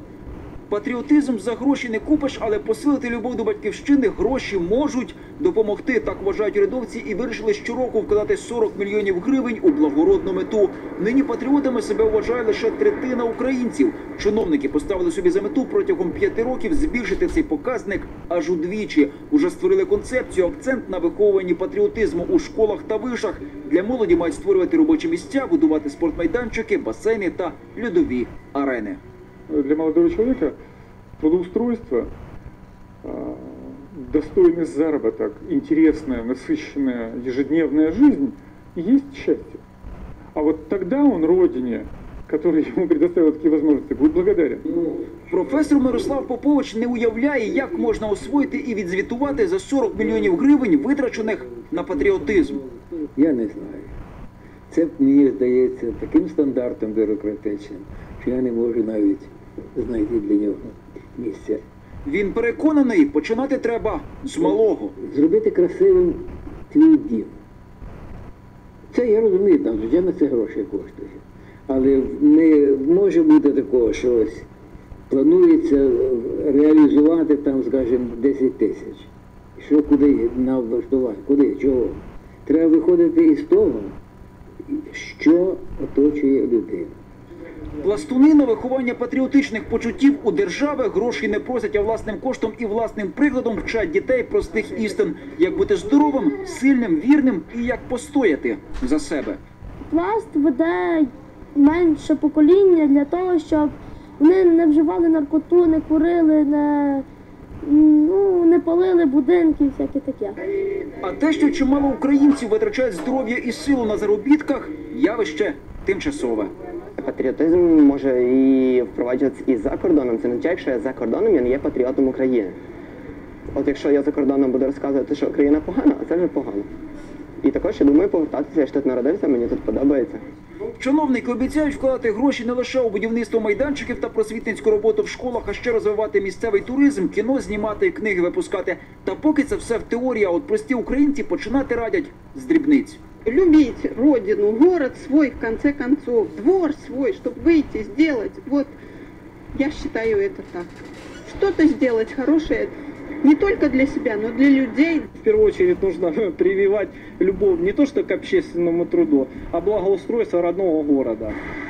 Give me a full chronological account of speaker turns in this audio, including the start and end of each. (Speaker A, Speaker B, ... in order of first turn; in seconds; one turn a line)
Speaker A: 0.7-29.0
Speaker B: 29.5-30.6
Speaker B: 31.2-32.1
Speaker B: 33.0-39.6
Speaker B: 40.3-44.6
Speaker A: 45.3-52.6
Speaker C: 53.0-53.9
Speaker C: 54.7-61.6
Speaker A: 62.0-64.9
Speaker C: 65.0-67.4
Speaker C: 68.9-74.5
Speaker C: 75.1-84.0
Speaker C: 84.7-86.9
Speaker A: 87.8-99.4
Speaker D: 99.9-107.0
Speaker D: 107.6-110.4
Speaker A: 111.0-116.5
Speaker E: 117.0-122.5
Speaker E: 123.5-126.7
Speaker E: 127.4-130.2
Speaker A: 130.8-143.0
Speaker F: 143.2-148.7
Speaker F: 149.5-150.7
Speaker F: 151.2-155.1
Speaker G: 155.2-161.4